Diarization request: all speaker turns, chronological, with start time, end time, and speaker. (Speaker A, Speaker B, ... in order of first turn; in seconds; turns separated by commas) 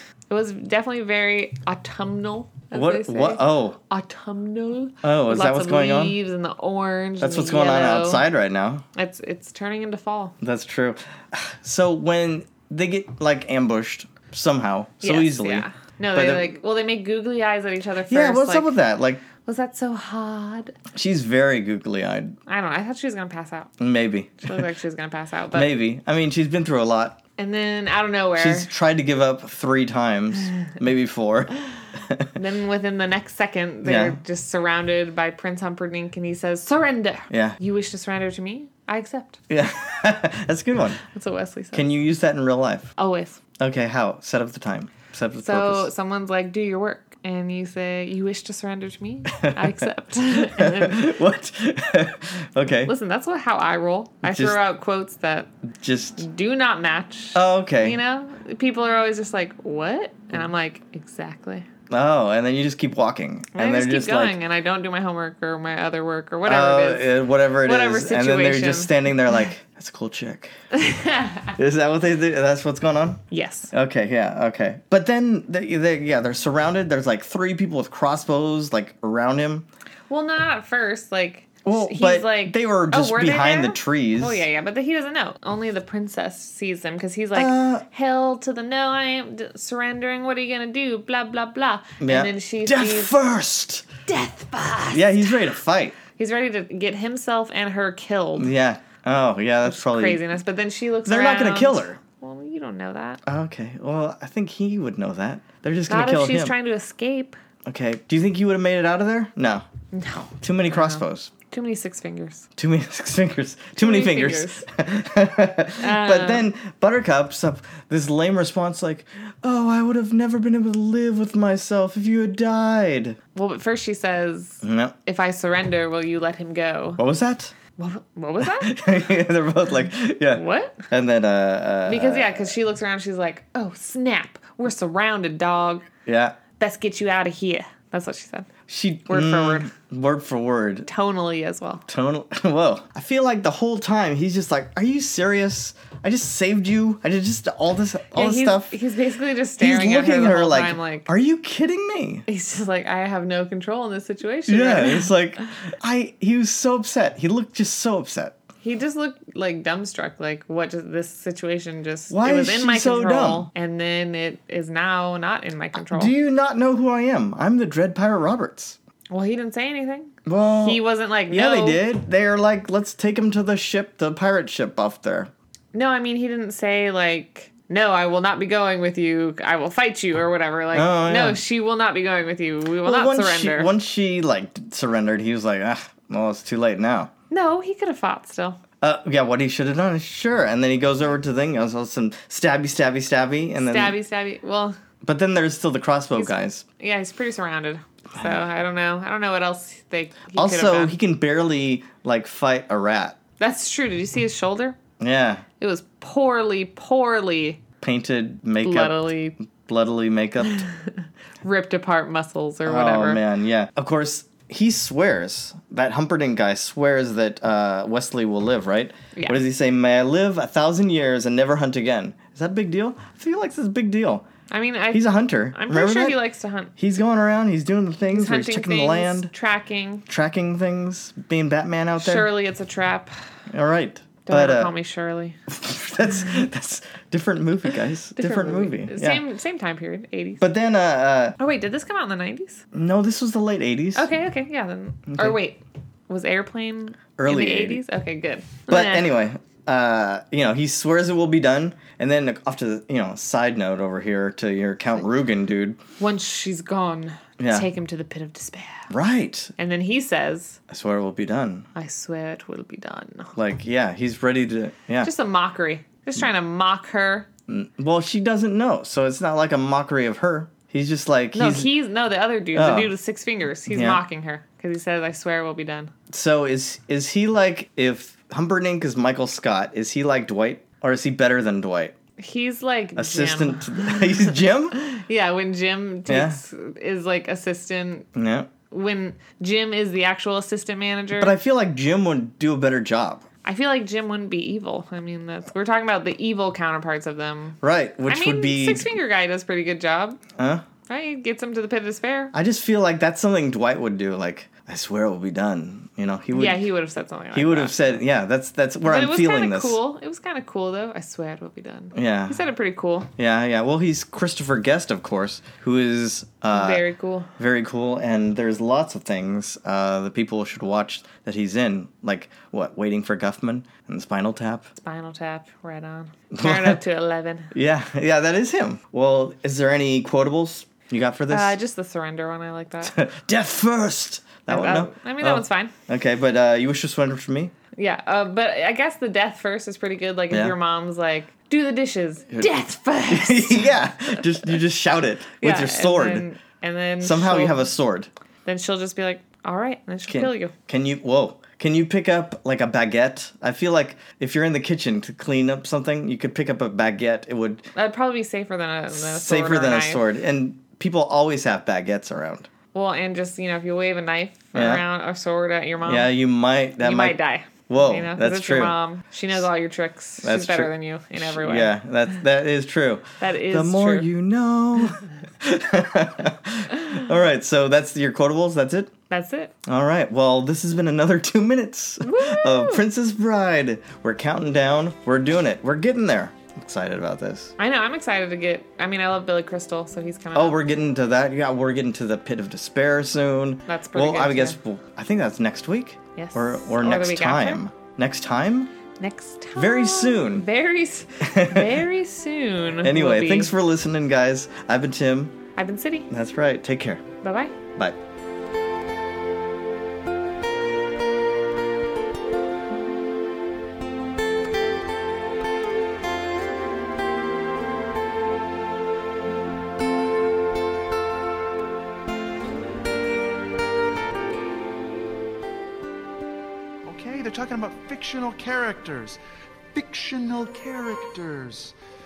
Speaker A: 0.3-8.2, Speaker B: 2.7-3.8, Speaker B: 5.0-6.2, Speaker B: 7.2-8.8, Speaker A: 8.9-10.3, Speaker B: 10.4-16.5, Speaker A: 15.0-18.7, Speaker B: 18.1-19.2, Speaker A: 19.4-20.8, Speaker B: 20.9-22.4, Speaker A: 22.5-23.7, Speaker B: 23.8-24.7, Speaker A: 24.4-25.7, Speaker B: 25.5-27.2, Speaker A: 27.4-28.7, Speaker B: 28.4-32.3, Speaker A: 32.3-39.4, Speaker B: 33.8-34.2, Speaker B: 37.3-37.6, Speaker B: 39.5-41.0, Speaker A: 41.0-41.8, Speaker B: 41.7-42.9, Speaker A: 43.0-43.4, Speaker B: 43.6-45.9, Speaker A: 45.4-51.2, Speaker B: 49.3-49.9, Speaker B: 50.4-52.9, Speaker A: 52.9-55.5, Speaker B: 54.2-54.6, Speaker B: 55.8-56.2, Speaker A: 56.2-61.6, Speaker B: 57.3-58.0, Speaker B: 61.9-64.4, Speaker A: 63.5-69.4, Speaker B: 66.4-70.5, Speaker A: 70.7-71.5, Speaker B: 71.5-73.2, Speaker A: 73.3-73.7, Speaker B: 73.7-79.7, Speaker A: 80.1-93.1, Speaker B: 81.6-84.4, Speaker B: 87.3-87.8, Speaker B: 92.0-93.8, Speaker A: 94.0-95.3, Speaker B: 94.9-96.0, Speaker A: 96.2-98.5, Speaker B: 98.4-100.2, Speaker A: 99.6-103.2, Speaker B: 101.0-102.0, Speaker B: 103.2-106.5, Speaker A: 105.9-107.3, Speaker B: 107.6-109.6, Speaker A: 109.9-112.5, Speaker B: 110.4-111.3, Speaker B: 112.6-123.2, Speaker A: 113.8-114.7, Speaker A: 115.8-116.5, Speaker A: 123.3-127.0, Speaker B: 124.6-124.9, Speaker B: 127.0-127.5, Speaker A: 127.8-128.7, Speaker B: 128.4-132.5, Speaker A: 130.3-130.8, Speaker A: 131.9-135.9, Speaker B: 136.1-136.4, Speaker A: 136.6-138.5, Speaker B: 138.7-140.9, Speaker A: 139.1-139.7, Speaker A: 140.9-141.8, Speaker B: 141.9-148.8, Speaker A: 148.1-151.1, Speaker B: 149.6-152.2, Speaker A: 152.3-155.1, Speaker B: 154.5-158.3, Speaker A: 158.6-166.1, Speaker B: 162.1-163.5, Speaker B: 165.7-168.8, Speaker A: 169.1-171.8, Speaker B: 170.2-175.3, Speaker A: 175.7-183.7, Speaker B: 180.7-181.4, Speaker B: 182.8-187.1, Speaker A: 187.3-188.6, Speaker B: 188.8-194.0, Speaker A: 193.6-194.8, Speaker B: 195.0-196.6, Speaker A: 196.1-200.9, Speaker B: 200.4-203.2, Speaker A: 203.4-204.8, Speaker B: 205.0-205.4, Speaker A: 205.6-207.6, Speaker B: 207.8-210.6, Speaker A: 208.6-209.3, Speaker A: 210.5-210.9, Speaker A: 211.4-213.2, Speaker B: 212.6-224.2, Speaker A: 224.5-226.7, Speaker B: 224.9-226.2, Speaker B: 226.8-229.3, Speaker A: 228.1-230.0, Speaker B: 230.1-232.3, Speaker A: 232.0-233.1, Speaker B: 233.5-234.7, Speaker A: 234.3-235.3, Speaker B: 235.5-239.2, Speaker A: 238.2-240.4, Speaker B: 240.4-241.4, Speaker A: 241.4-242.6, Speaker B: 242.7-244.1, Speaker A: 243.9-249.1, Speaker B: 245.1-245.4, Speaker B: 247.2-247.8, Speaker B: 248.7-255.8, Speaker A: 256.0-258.9, Speaker B: 257.4-257.7, Speaker B: 258.9-259.5, Speaker A: 259.6-260.6, Speaker B: 260.7-261.7, Speaker A: 261.7-263.3, Speaker B: 263.4-265.1, Speaker A: 265.0-267.3, Speaker B: 267.5-271.7, Speaker A: 271.3-275.9, Speaker B: 272.5-272.9, Speaker B: 273.7-274.0, Speaker B: 276.1-281.9, Speaker A: 282.2-288.1, Speaker B: 282.9-284.8, Speaker B: 286.1-286.4, Speaker B: 288.1-288.5, Speaker A: 288.7-291.3, Speaker B: 291.2-293.2, Speaker A: 293.4-297.6, Speaker B: 297.6-298.9, Speaker A: 298.1-300.2, Speaker B: 300.4-300.6, Speaker A: 300.9-302.3, Speaker B: 302.3-306.6, Speaker A: 306.3-308.0, Speaker B: 307.3-309.8, Speaker A: 308.8-313.1, Speaker B: 311.9-312.4, Speaker B: 313.2-316.8, Speaker A: 316.5-317.3, Speaker B: 317.4-324.7, Speaker A: 324.8-327.5, Speaker B: 326.3-326.8, Speaker B: 327.5-331.6, Speaker A: 331.3-332.9, Speaker B: 332.8-337.5, Speaker A: 334.5-335.7, Speaker A: 337.8-343.7, Speaker B: 340.3-340.6, Speaker B: 343.1-346.2, Speaker A: 345.4-347.7, Speaker B: 347.0-348.1, Speaker A: 348.4-350.5, Speaker B: 350.1-357.7, Speaker A: 357.8-360.0, Speaker B: 358.9-362.5, Speaker A: 362.7-366.1, Speaker B: 364.5-364.8, Speaker B: 365.8-367.2, Speaker A: 366.8-371.7, Speaker B: 367.7-368.7, Speaker B: 370.2-378.9, Speaker A: 373.2-374.1, Speaker A: 379.1-379.5, Speaker B: 379.6-387.5, Speaker A: 382.0-382.8, Speaker A: 387.6-390.6, Speaker B: 390.3-398.7, Speaker A: 393.7-394.6, Speaker A: 396.1-397.6, Speaker A: 399.0-403.5, Speaker B: 399.6-400.4, Speaker B: 401.2-401.8, Speaker B: 402.8-405.4, Speaker A: 405.6-406.1, Speaker B: 406.1-407.0, Speaker A: 407.2-407.5, Speaker C: 426.8-429.2, Speaker C: 429.7-431.7